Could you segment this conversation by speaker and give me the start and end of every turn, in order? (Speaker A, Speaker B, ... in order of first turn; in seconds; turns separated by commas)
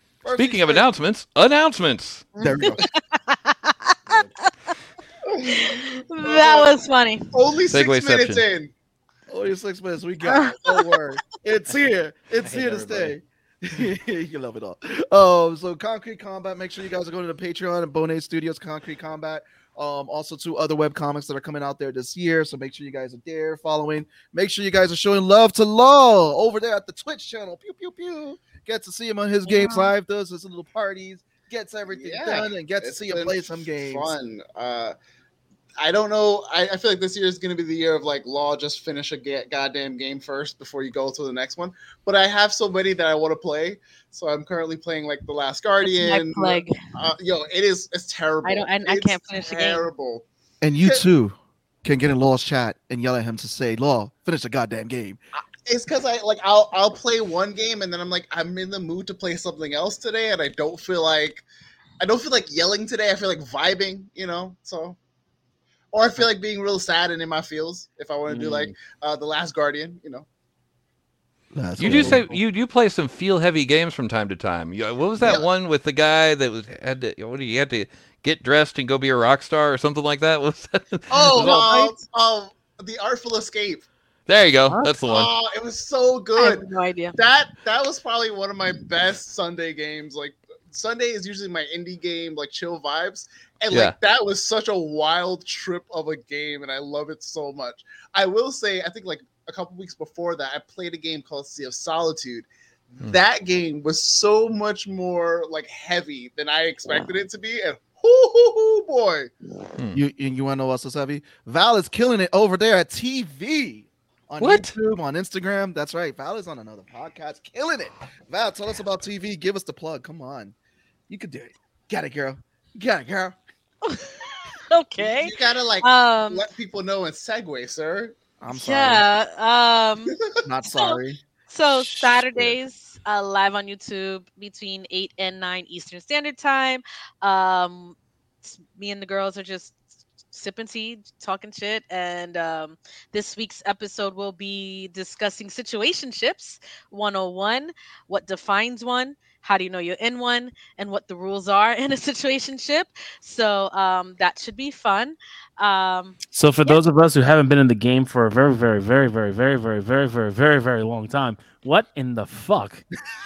Speaker A: 0.2-0.9, Speaker B: 0.4-2.3, Speaker C: 2.4-4.2, Speaker A: 2.4-2.8, Speaker D: 5.3-6.8, Speaker C: 5.5-7.3, Speaker D: 7.3-8.7, Speaker B: 7.7-8.4, Speaker A: 9.3-34.1, Speaker C: 10.2-10.9, Speaker E: 12.4-13.2, Speaker C: 29.5-29.9, Speaker D: 31.9-35.0, Speaker D: 35.8-50.2, Speaker C: 45.9-46.8, Speaker C: 48.4-49.8, Speaker A: 50.6-55.2, Speaker D: 55.6-61.4, Speaker D: 62.0-65.0, Speaker D: 65.9-70.3, Speaker E: 68.3-68.7, Speaker A: 71.5-72.4, Speaker B: 71.8-81.6, Speaker D: 71.9-72.1, Speaker D: 75.2-75.5, Speaker D: 81.1-83.9, Speaker C: 81.4-81.9, Speaker B: 84.3-85.3, Speaker D: 85.1-109.3, Speaker C: 86.4-87.2, Speaker B: 93.7-94.0, Speaker A: 109.9-120.5, Speaker B: 114.4-114.7, Speaker A: 121.1-123.4, Speaker C: 123.8-126.5, Speaker D: 125.0-128.2, Speaker A: 128.4-129.1, Speaker C: 128.5-130.1, Speaker A: 130.4-131.2, Speaker C: 130.7-156.8, Speaker A: 131.8-132.5, Speaker E: 156.3-162.8